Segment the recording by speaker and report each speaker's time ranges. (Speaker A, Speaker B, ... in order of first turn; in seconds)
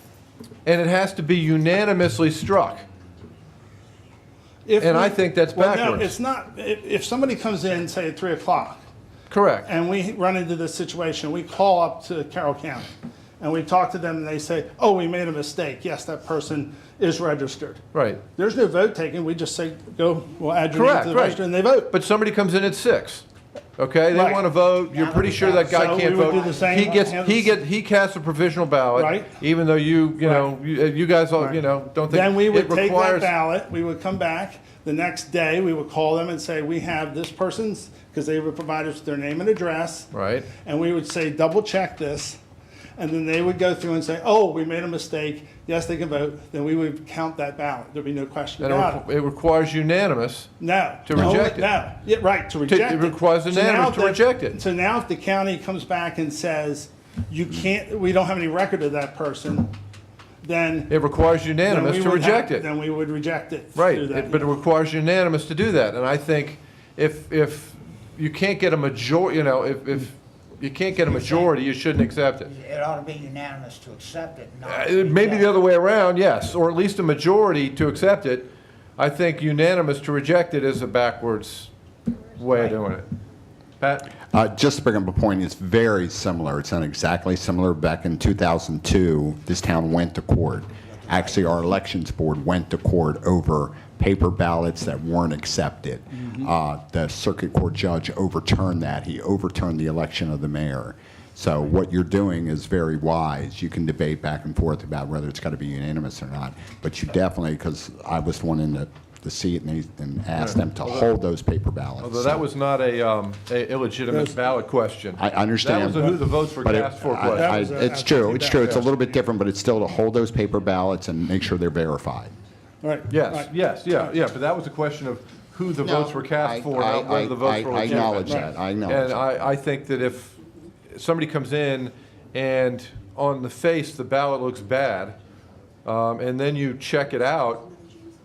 Speaker A: 0.6-2.8, 4.8-6.1, 9.3-9.7, 17.9-18.2, 20.7-23.2, 23.8-33.3, 40.1-40.5, 48.6-50.5, 51.0-51.7, 52.7-54.6, 60.9-62.7, 63.7-72.5, 74.7-81.7, 82.3-83.1, 83.8-84.1, 110.4-111.1, 112.0-117.6, 123.1-130.3, 130.9-135.2, 135.8-137.7
Speaker B: 4.7-8.8, 9.7-17.8, 18.4-21.9, 24.1-24.5, 25.5-27.5, 28.9-29.4, 30.2-30.5, 31.4-40.1, 40.6-42.4, 43.0-49.0, 50.6-59.7, 60.4-60.9, 61.6-64.6, 114.1-114.3, 117.3-119.0, 122.8-124.0, 127.9-128.4
Speaker C: 24.9-27.1, 71.0-71.5, 72.5-75.5, 91.0-91.5
Speaker D: 84.3-112.4, 115.2-122.3, 125.8-129.3